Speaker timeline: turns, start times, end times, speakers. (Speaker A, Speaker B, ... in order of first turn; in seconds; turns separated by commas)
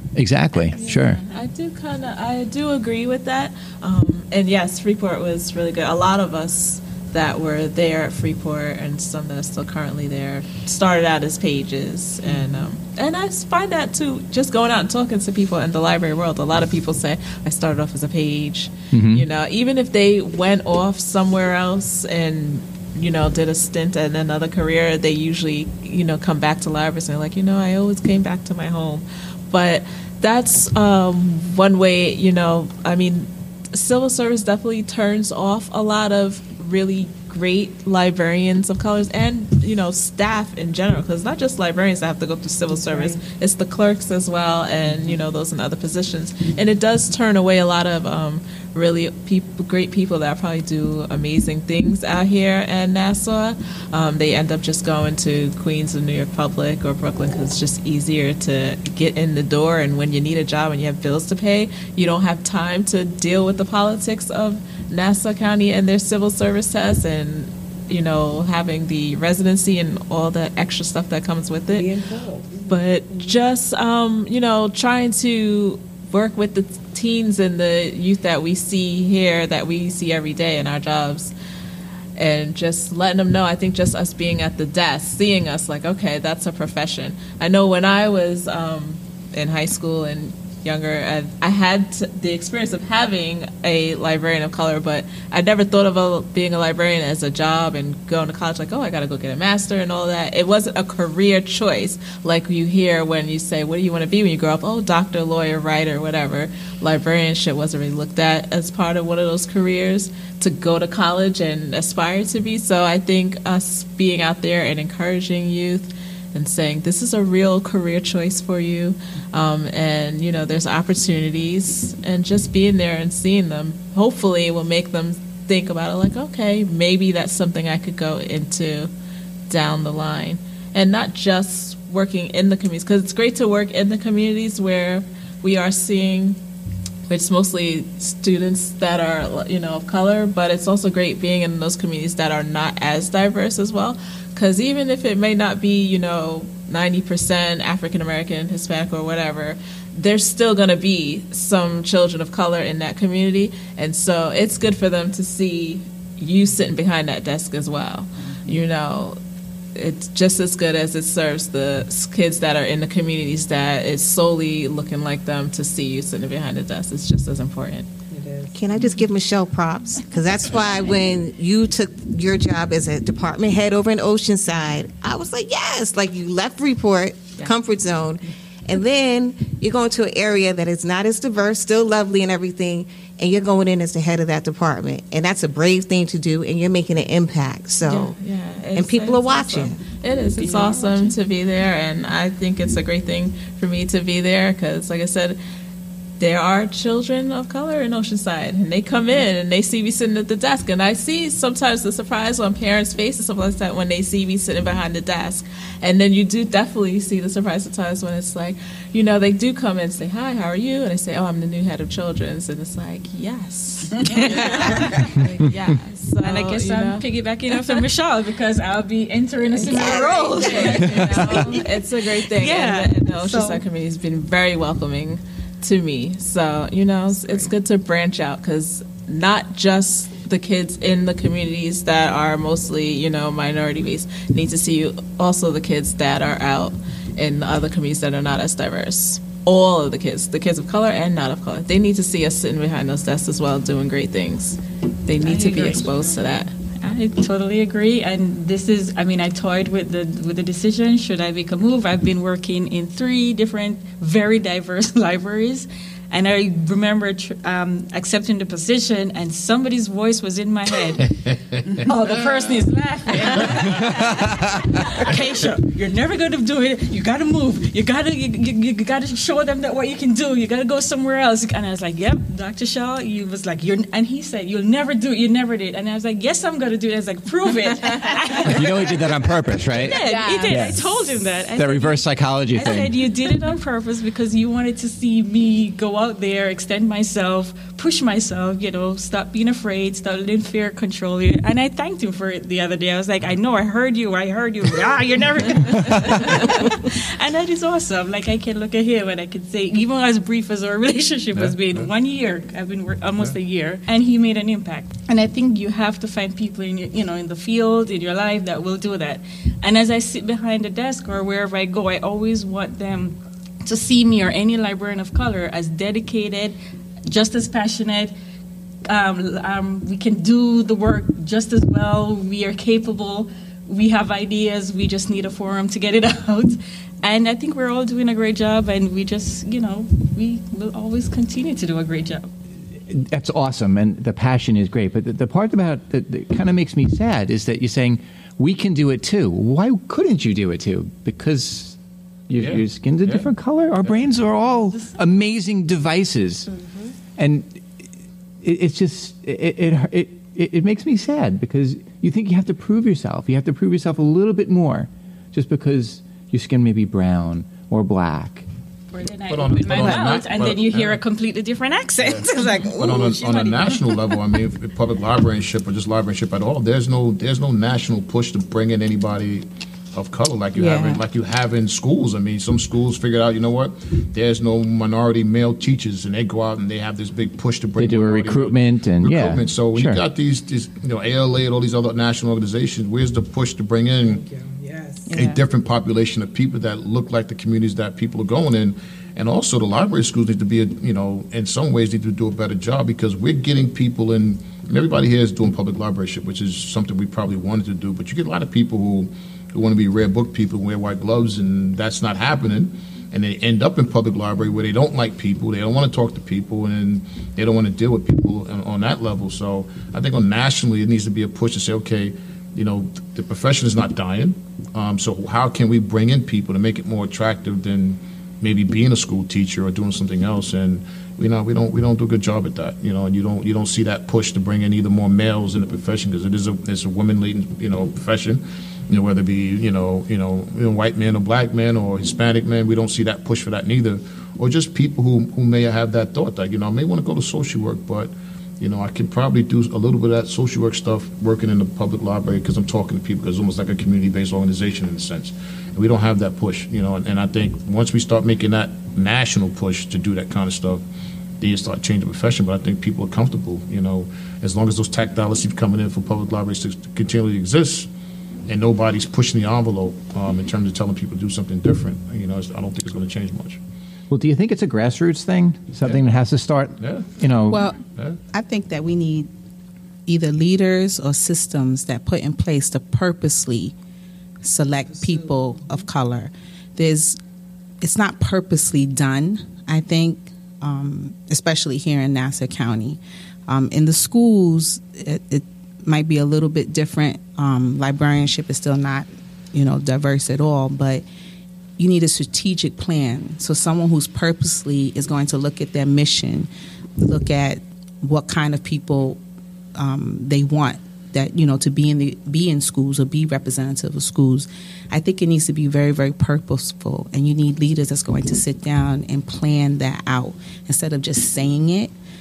Speaker A: 0.1-1.2, Speaker B: 0.9-71.9, Speaker C: 12.2-12.7, Speaker A: 18.9-19.2, Speaker C: 42.7-43.2, Speaker C: 44.9-45.2, Speaker C: 71.7-73.3, Speaker B: 72.7-81.3, Speaker B: 82.2-128.9, Speaker B: 129.5-136.4, Speaker B: 137.1-159.2, Speaker B: 159.8-167.9, Speaker C: 168.1-168.8, Speaker D: 168.5-188.2, Speaker B: 187.9-195.4, Speaker D: 188.8-189.8, Speaker E: 190.4-191.1, Speaker B: 196.2-217.8, Speaker E: 214.0-215.5, Speaker E: 216.2-223.6, Speaker B: 219.6-246.5, Speaker E: 245.2-261.1, Speaker F: 261.2-261.8, Speaker E: 261.8-279.0, Speaker F: 263.2-263.7, Speaker A: 263.7-264.3, Speaker A: 278.4-283.1, Speaker E: 279.7-318.1, Speaker C: 280.0-280.7, Speaker F: 301.3-301.9, Speaker E: 318.9-332.3, Speaker A: 332.9-341.8, Speaker A: 342.3-346.5, Speaker F: 342.4-343.3, Speaker F: 343.8-344.1, Speaker D: 346.5-346.9, Speaker A: 347.2-347.6, Speaker A: 348.4-358.4, Speaker E: 358.9-364.1, Speaker F: 359.3-361.0, Speaker F: 362.0-384.2, Speaker G: 370.6-371.0, Speaker A: 377.8-380.0, Speaker C: 384.0-385.1, Speaker G: 385.1-385.4, Speaker F: 385.1-450.8, Speaker F: 451.4-457.9, Speaker F: 458.5-463.6, Speaker A: 464.1-467.6, Speaker F: 466.8-467.2, Speaker G: 467.5-467.8, Speaker F: 467.9-468.2, Speaker G: 468.3-469.3, Speaker G: 470.1-473.7, Speaker G: 474.4-477.2, Speaker G: 477.8-491.0, Speaker G: 491.8-499.2, Speaker G: 499.8-511.9